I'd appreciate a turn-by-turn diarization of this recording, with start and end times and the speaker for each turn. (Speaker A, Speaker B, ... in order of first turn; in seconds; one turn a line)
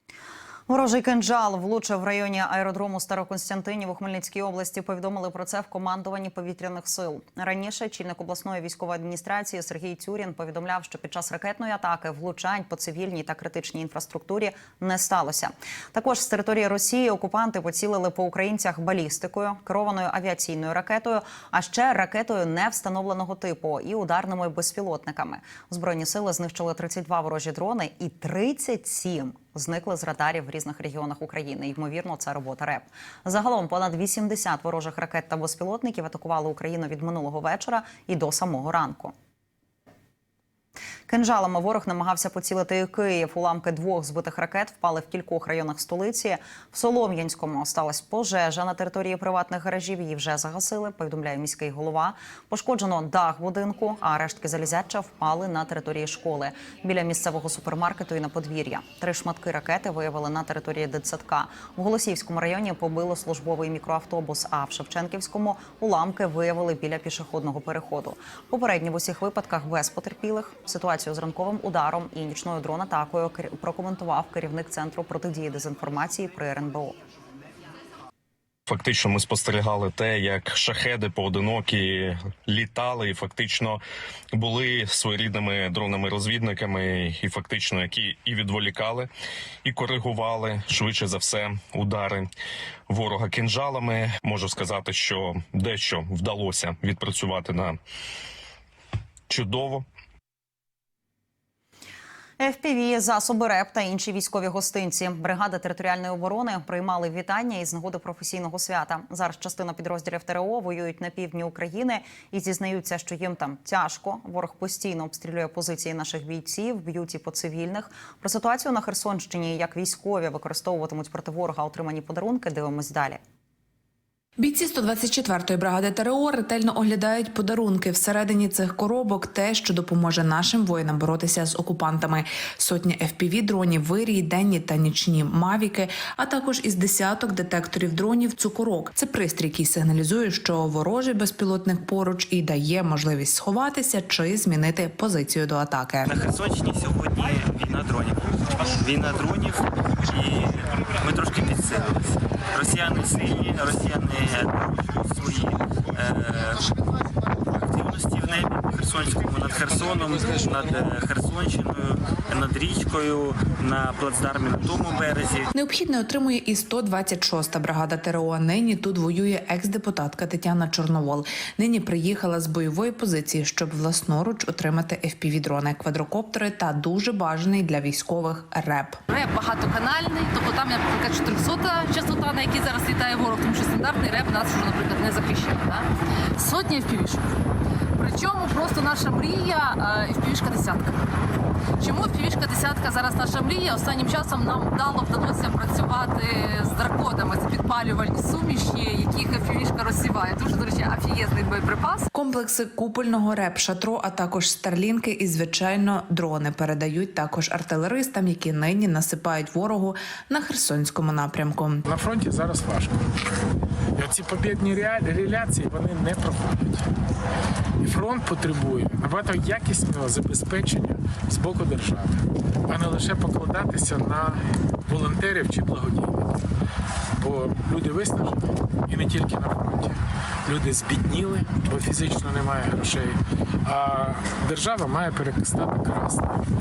Speaker A: 0.7-39.1
Speaker A: 41.1-77.0
Speaker B: 78.7-83.8
Speaker B: 84.3-89.1
Speaker B: 89.7-92.3
Speaker B: 92.9-97.8
Speaker B: 99.3-99.8
Speaker A: 102.4-123.2
Speaker C: 124.4-146.1
Speaker D: 146.1-156.7
Speaker D: 157.6-165.5
Speaker C: 165.5-179.0
Speaker E: 179.1-187.3
Speaker E: 188.0-191.0
Speaker E: 191.8-202.1
Speaker C: 202.1-211.8
Speaker F: 211.8-213.0
Speaker F: 214.0-216.8
Speaker F: 217.8-226.3
Speaker F: 227.2-236.4